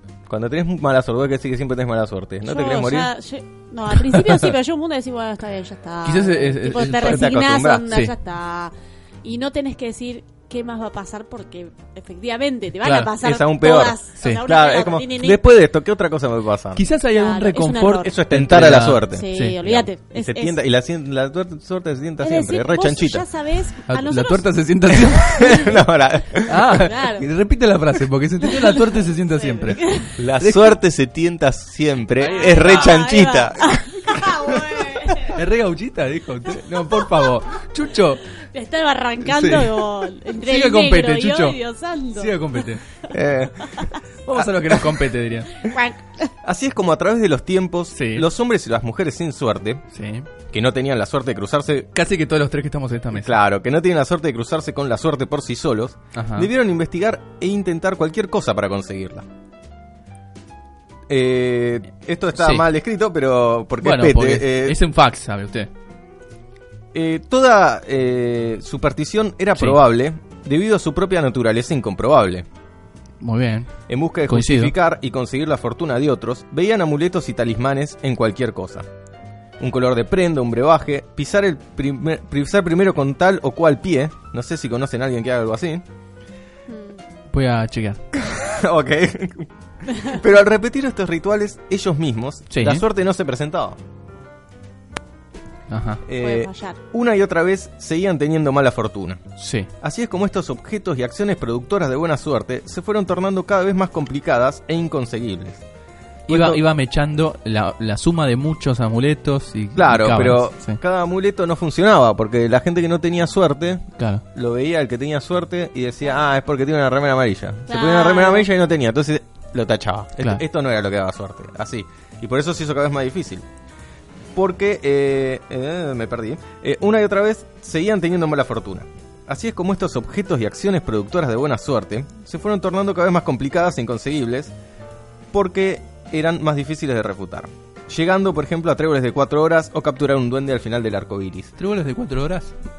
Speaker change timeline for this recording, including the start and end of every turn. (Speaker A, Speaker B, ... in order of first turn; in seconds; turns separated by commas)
Speaker A: 0.3-3.1, Speaker B: 2.4-15.4, Speaker C: 4.1-4.4, Speaker C: 6.0-7.3, Speaker A: 6.9-7.8, Speaker C: 12.8-13.1, Speaker A: 13.2-16.8, Speaker C: 14.2-14.4, Speaker C: 16.7-19.6, Speaker B: 17.1-18.1, Speaker A: 18.0-23.2, Speaker B: 19.1-20.6, Speaker B: 22.2-24.5, Speaker C: 23.9-25.6, Speaker A: 25.0-26.8, Speaker B: 25.2-25.7, Speaker C: 26.4-30.8, Speaker B: 26.7-27.2, Speaker B: 28.4-30.2, Speaker A: 30.2-34.9, Speaker B: 32.2-35.4, Speaker C: 32.3-32.9, Speaker C: 35.3-38.2, Speaker B: 38.4-42.6, Speaker C: 39.2-41.6, Speaker C: 42.1-42.8, Speaker A: 43.1-45.0, Speaker B: 43.6-44.0, Speaker C: 44.2-45.5, Speaker B: 45.6-46.3, Speaker A: 46.4-49.8, Speaker C: 47.9-48.3, Speaker C: 49.9-50.3, Speaker A: 50.5-51.9, Speaker C: 51.9-53.3, Speaker A: 53.1-59.2, Speaker C: 56.1-56.5, Speaker A: 61.1-64.8, Speaker C: 62.4-62.7, Speaker C: 63.8-65.7, Speaker A: 66.9-72.5, Speaker C: 73.2-73.7, Speaker A: 73.9-78.8, Speaker C: 74.3-74.7, Speaker A: 79.6-85.8, Speaker B: 86.7-87.0, Speaker C: 87.3-88.0, Speaker A: 88.1-93.8, Speaker C: 92.5-92.8, Speaker C: 95.7-96.0, Speaker A: 96.0-99.2, Speaker B: 96.2-96.8, Speaker C: 99.4-99.7, Speaker A: 99.8-105.6, Speaker A: 106.3-106.6, Speaker C: 106.3-110.8, Speaker A: 109.7-123.4, Speaker C: 114.0-114.2, Speaker B: 117.7-118.5, Speaker A: 124.3-134.5, Speaker A: 135.3-141.5, Speaker C: 141.6-142.5